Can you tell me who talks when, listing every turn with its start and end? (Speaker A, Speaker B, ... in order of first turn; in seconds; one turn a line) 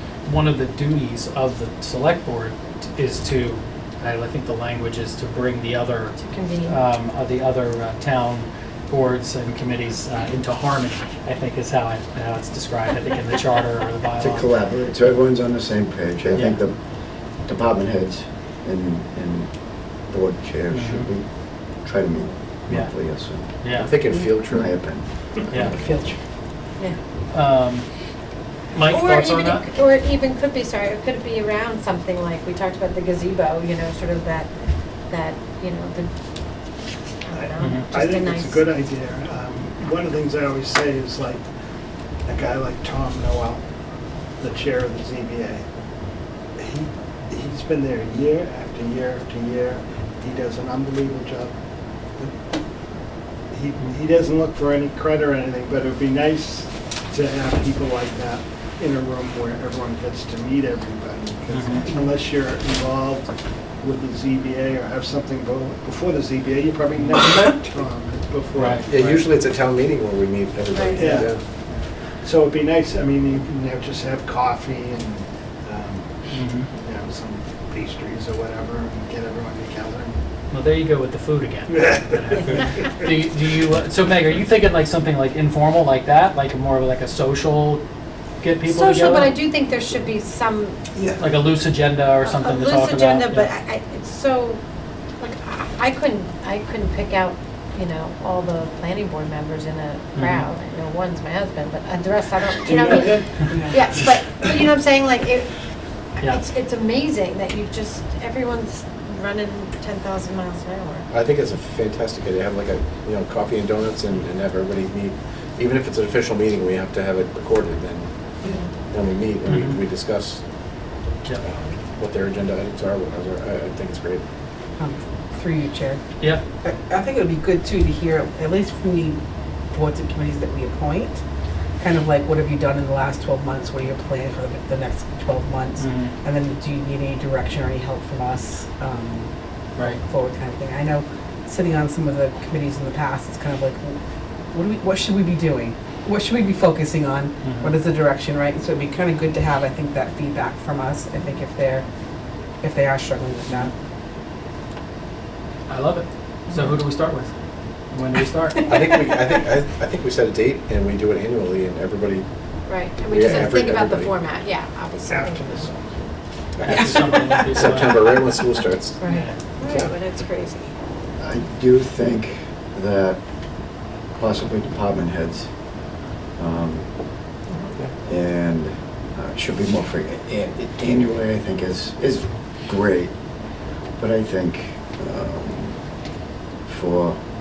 Speaker A: 0.2-14.5
Speaker B: 6.2-6.8
Speaker C: 14.2-16.8
Speaker C: 17.4-19.5
Speaker C: 20.0-21.3
Speaker A: 20.7-21.1
Speaker C: 21.8-23.6
Speaker A: 22.7-22.9
Speaker A: 23.6-23.9
Speaker D: 23.7-24.7
Speaker C: 24.5-25.0
Speaker D: 25.5-25.9
Speaker E: 25.8-26.2
Speaker A: 27.3-27.8
Speaker A: 28.7-29.6
Speaker B: 28.9-34.5
Speaker B: 35.1-36.1
Speaker B: 37.2-38.6
Speaker F: 37.3-41.4
Speaker A: 37.6-37.9
Speaker F: 42.2-43.6
Speaker F: 44.4-45.6
Speaker F: 46.6-51.5
Speaker F: 53.5-69.1
Speaker A: 61.5-61.9
Speaker A: 68.5-69.2
Speaker D: 68.9-71.4
Speaker B: 70.7-71.1
Speaker F: 70.9-71.3
Speaker F: 72.2-80.2
Speaker A: 76.3-76.7
Speaker A: 80.5-87.8
Speaker F: 81.7-82.6
Speaker A: 88.4-89.4
Speaker B: 88.7-90.8
Speaker A: 91.2-93.5
Speaker B: 92.2-94.6
Speaker B: 95.2-105.5
Speaker A: 100.1-100.5
Speaker F: 102.5-103.4
Speaker E: 103.5-103.8
Speaker B: 106.2-111.1
Speaker D: 111.1-118.1
Speaker D: 118.9-120.4
Speaker A: 119.5-119.8
Speaker D: 121.4-124.2
Speaker E: 124.8-126.0
Speaker E: 126.6-129.2
Speaker E: 129.7-131.2
Speaker E: 131.8-139.3
Speaker A: 135.8-136.1
Speaker E: 139.8-144.0
Speaker E: 144.5-151.8
Speaker A: 147.4-147.7
Speaker E: 152.6-153.7
Speaker A: 155.7-157.3
Speaker A: 157.9-158.7
Speaker E: 158.6-159.2
Speaker D: 158.7-162.2
Speaker B: 162.7-165.5
Speaker D: 163.0-164.1
Speaker D: 164.9-165.2
Speaker F: 165.1-165.8
Speaker D: 166.6-169.0
Speaker A: 166.6-168.1
Speaker E: 166.7-167.6
Speaker B: 169.0-170.7
Speaker A: 169.1-169.3
Speaker D: 169.6-169.9
Speaker C: 171.2-173.2
Speaker C: 174.1-175.5
Speaker C: 176.4-176.9
Speaker C: 178.0-183.1
Speaker C: 184.0-185.8
Speaker C: 186.7-187.2